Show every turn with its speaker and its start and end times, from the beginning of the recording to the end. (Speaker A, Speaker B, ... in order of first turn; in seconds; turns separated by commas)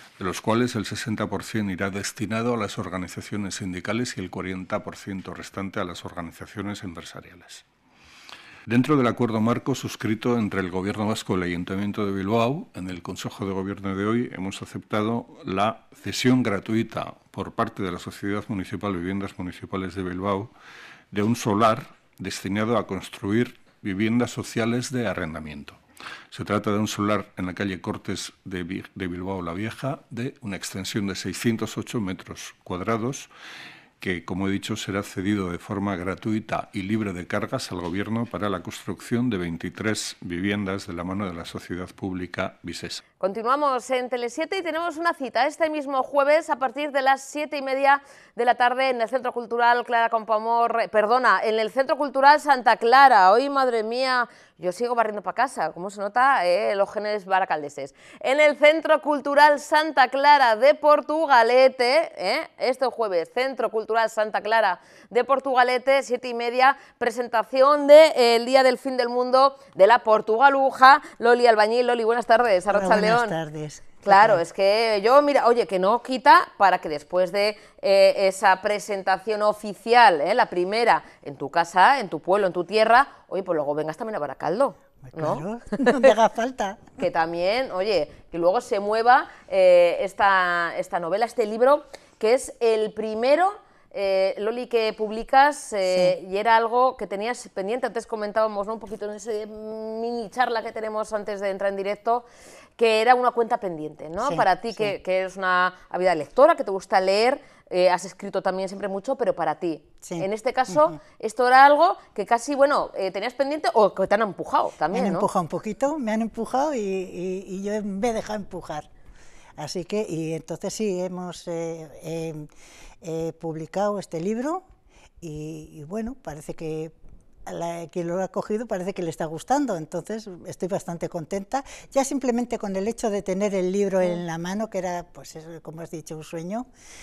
Speaker A: 0.2-7.6, Speaker A: 8.7-20.5, Speaker A: 21.1-33.3, Speaker A: 34.0-43.0, Speaker B: 43.2-73.3, Speaker C: 72.7-74.4, Speaker B: 74.0-86.1, Speaker C: 85.1-86.8, Speaker B: 87.0-102.2, Speaker B: 102.8-115.3, Speaker C: 104.2-104.9, Speaker C: 110.0-111.0, Speaker C: 114.9-118.9, Speaker C: 119.6-122.5, Speaker C: 123.0-124.6, Speaker C: 125.2-126.9, Speaker C: 127.5-136.7